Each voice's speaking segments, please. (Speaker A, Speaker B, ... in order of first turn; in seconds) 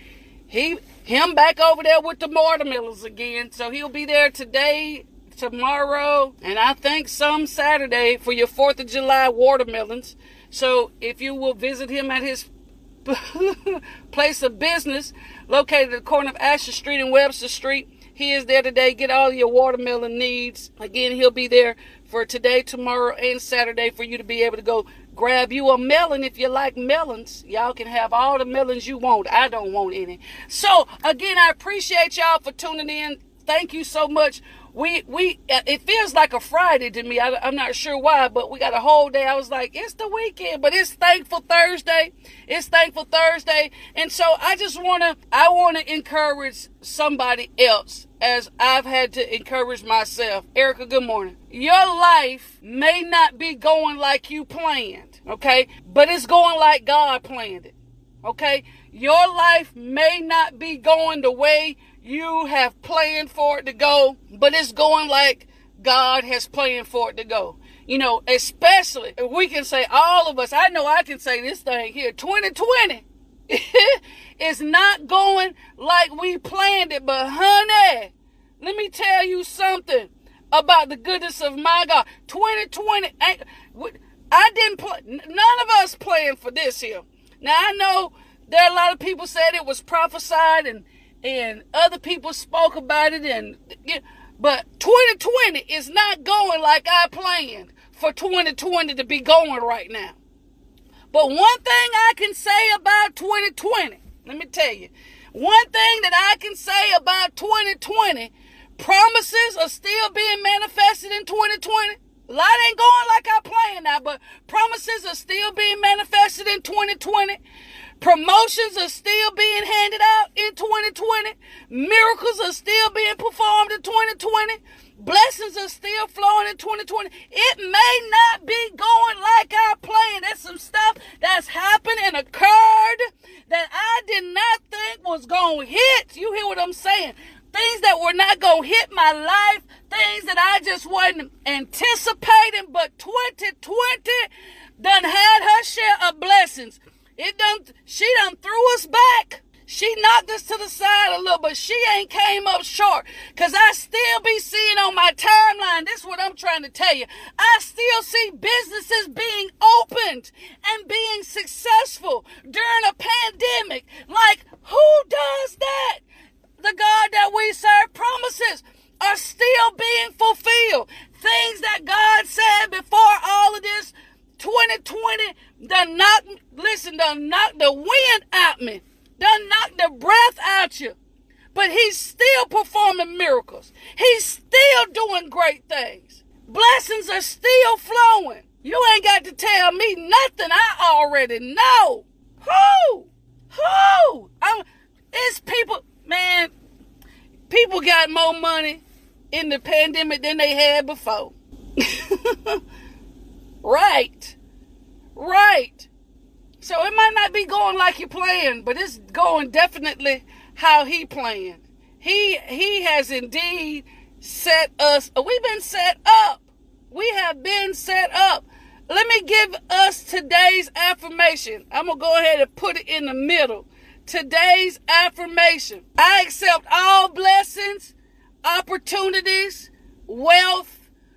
Speaker A: 0.5-12.5, 13.1-100.2, 101.1-117.4, 118.0-166.0, 166.6-181.0, 181.5-196.5, 197.5-202.6, 203.6-204.4, 205.2-205.9, 206.6-230.8